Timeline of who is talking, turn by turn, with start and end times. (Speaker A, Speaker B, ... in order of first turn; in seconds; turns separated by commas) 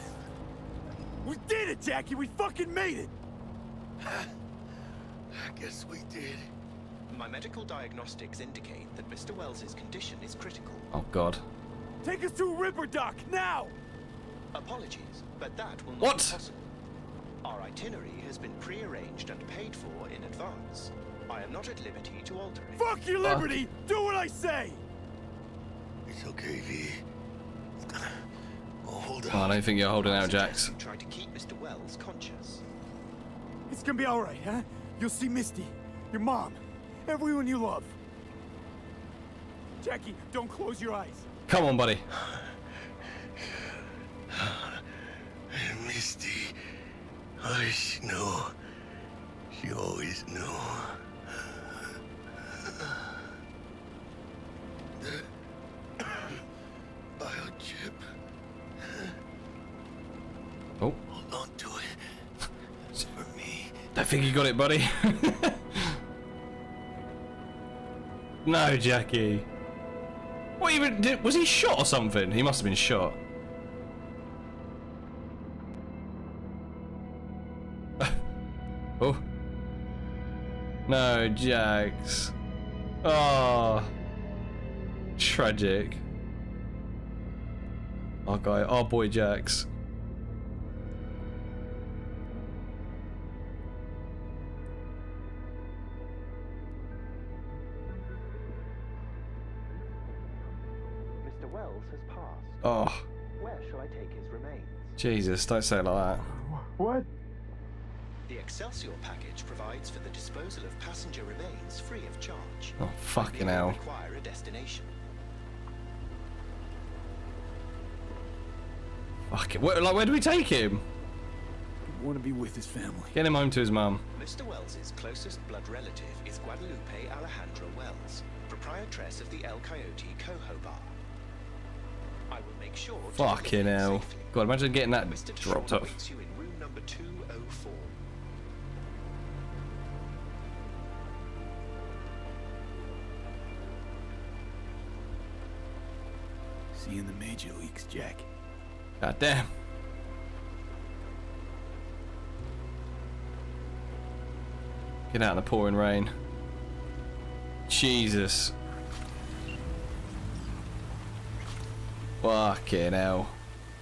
Speaker A: 1.2-3.1, Speaker B: 4.0-4.3, Speaker B: 5.3-6.5, Speaker C: 7.1-10.9, Speaker D: 10.9-11.4, Speaker A: 12.0-13.8, Speaker C: 14.5-16.7, Speaker D: 16.0-16.4, Speaker C: 17.4-22.8, Speaker A: 22.8-24.8, Speaker D: 23.2-23.6, Speaker B: 26.1-27.1, Speaker B: 27.8-28.2, Speaker B: 28.8-29.6, Speaker D: 29.3-30.7, Speaker C: 29.9-32.6, Speaker A: 33.7-38.0, Speaker A: 39.8-41.3, Speaker D: 41.5-42.1, Speaker B: 44.3-44.8, Speaker B: 45.5-46.6, Speaker B: 47.4-48.5, Speaker B: 49.5-51.5, Speaker B: 52.7-53.0, Speaker B: 55.0-55.3, Speaker B: 56.0-56.4, Speaker B: 57.2-58.0, Speaker B: 61.1-62.0, Speaker B: 63.0-63.9, Speaker D: 63.9-66.0, Speaker D: 68.4-69.5, Speaker D: 70.6-73.2, Speaker D: 79.0-79.2, Speaker D: 80.9-82.3, Speaker D: 83.0-83.9, Speaker D: 85.2-86.0, Speaker D: 88.3-89.7, Speaker C: 101.2-102.6, Speaker D: 102.6-103.0, Speaker C: 103.3-105.0, Speaker D: 105.0-106.3, Speaker A: 106.3-107.1, Speaker C: 108.3-114.9, Speaker D: 112.8-113.8, Speaker D: 119.3-120.8, Speaker A: 121.9-123.2, Speaker D: 123.1-124.0, Speaker C: 124.2-131.0, Speaker C: 132.3-134.4, Speaker D: 133.1-136.0, Speaker C: 134.9-138.0, Speaker A: 146.7-148.3, Speaker D: 149.0-149.5, Speaker D: 155.1-156.1, Speaker D: 157.7-158.5, Speaker D: 162.2-163.4